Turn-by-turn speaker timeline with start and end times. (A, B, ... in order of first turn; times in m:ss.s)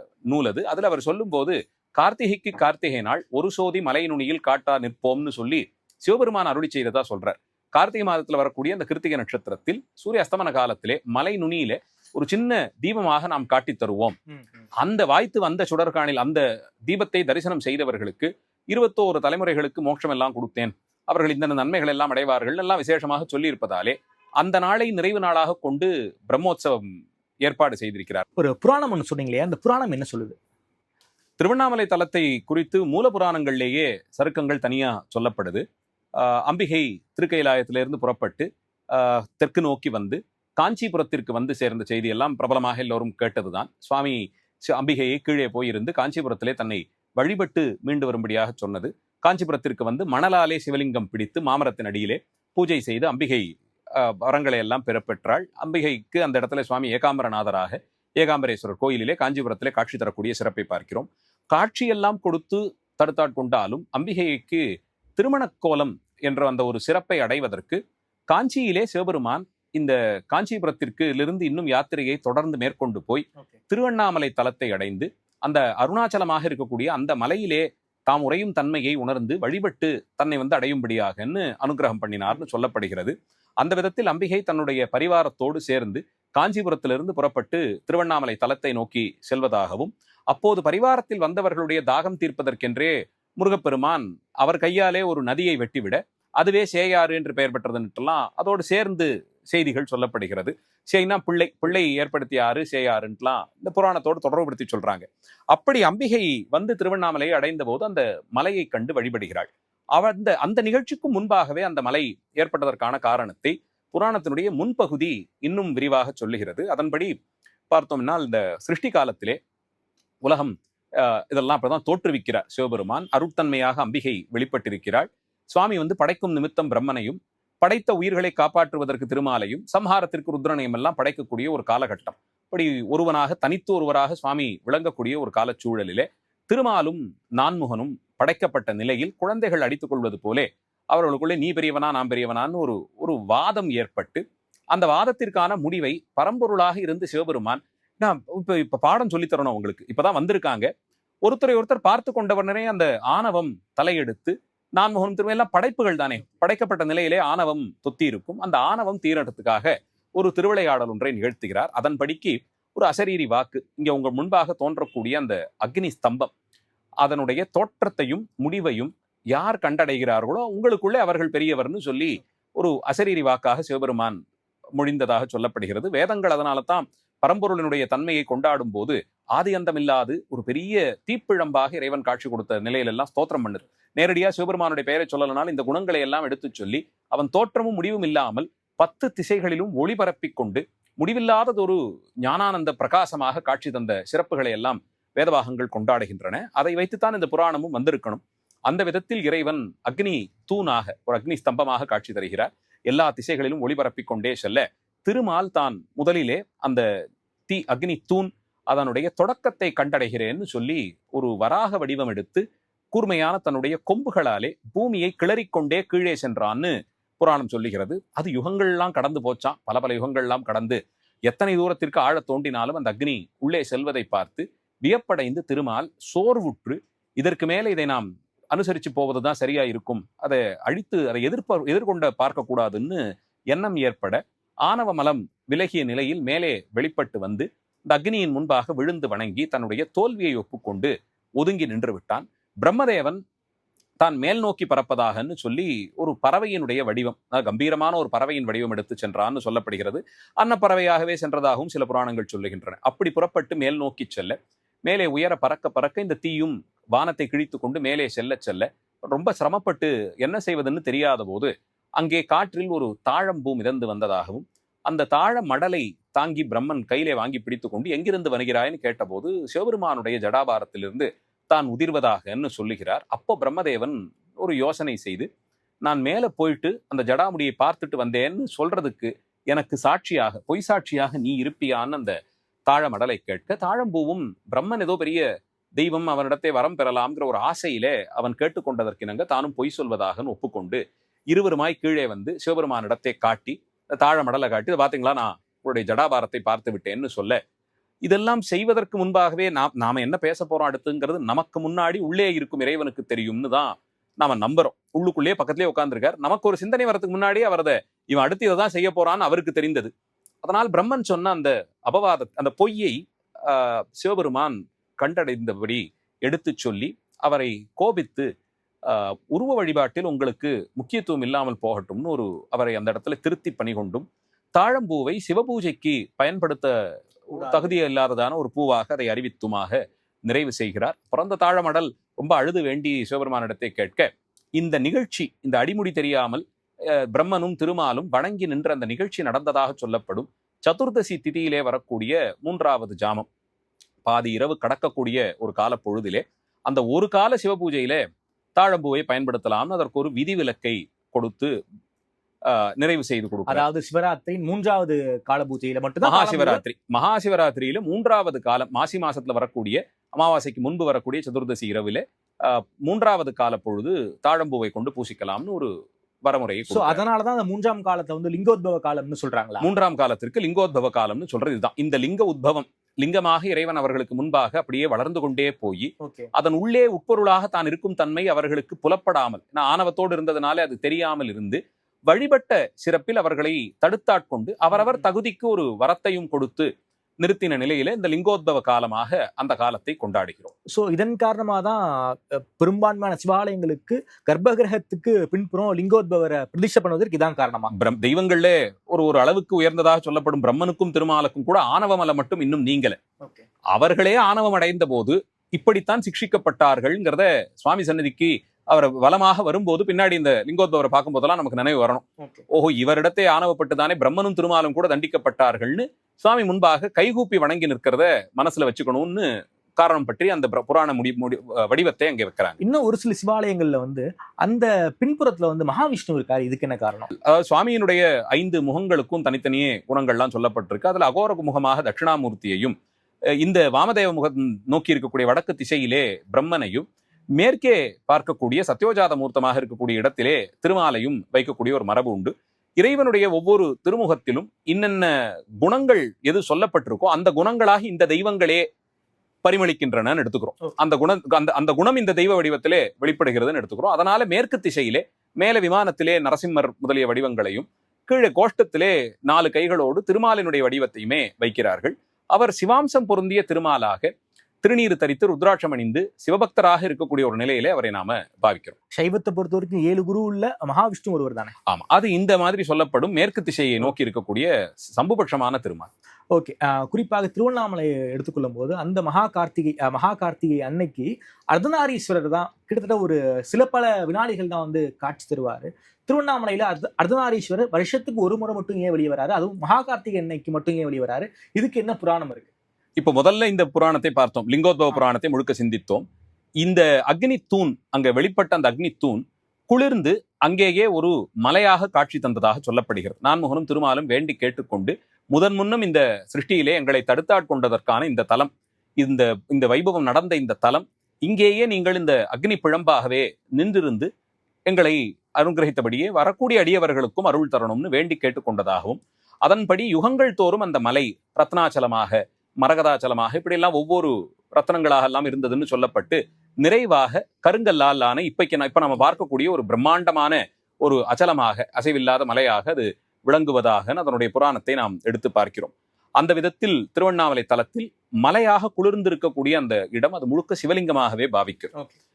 0:00.3-0:14.2 A
0:14.3-0:14.7 B
0:14.8-0:28.2 A
0:28.4-0:30.4 B
0:31.4-0:35.6 A
0:36.2-1:04.6 A
1:05.2-1:57.2 A
1:57.7-1:59.4 A
2:00.2-2:30.7 A
2:31.2-2:46.3 A
2:47.0-2:54.2 A
2:54.8-3:26.8 A
3:27.5-4:03.2 A
4:04.0-4:35.3 A
4:35.8-4:45.2 A
4:45.8-4:57.4 A
4:58.1-5:09.9 A
5:10.4-5:18.3 A
5:18.8-5:26.7 A
5:27.3-5:43.3 A
5:27.4-5:27.7 B
5:44.0-5:48.0 A
5:48.6-5:51.5 A
5:52.5-5:53.6 A
5:53.5-5:56.6 B
5:56.0-6:05.7 A
6:06.2-6:07.0 A
6:06.7-6:09.7 B
6:09.6-6:26.7 A
6:16.0-6:16.3 B
6:27.2-6:30.5 A
6:30.7-6:37.7 B
6:37.7-6:43.0 A
6:43.7-7:02.6 A
6:52.2-6:52.4 B
7:02.6-7:07.1 B
7:07.2-7:12.8 A
7:13.4-7:16.9 A
7:17.4-7:28.7 A
7:29.4-7:44.1 A
7:44.6-7:48.8 A
7:49.0-7:51.6 B
7:51.7-7:55.9 A
7:56.3-8:12.5 B
8:13.0-8:16.0 A
8:16.6-8:34.1 A
8:34.7-9:01.7 A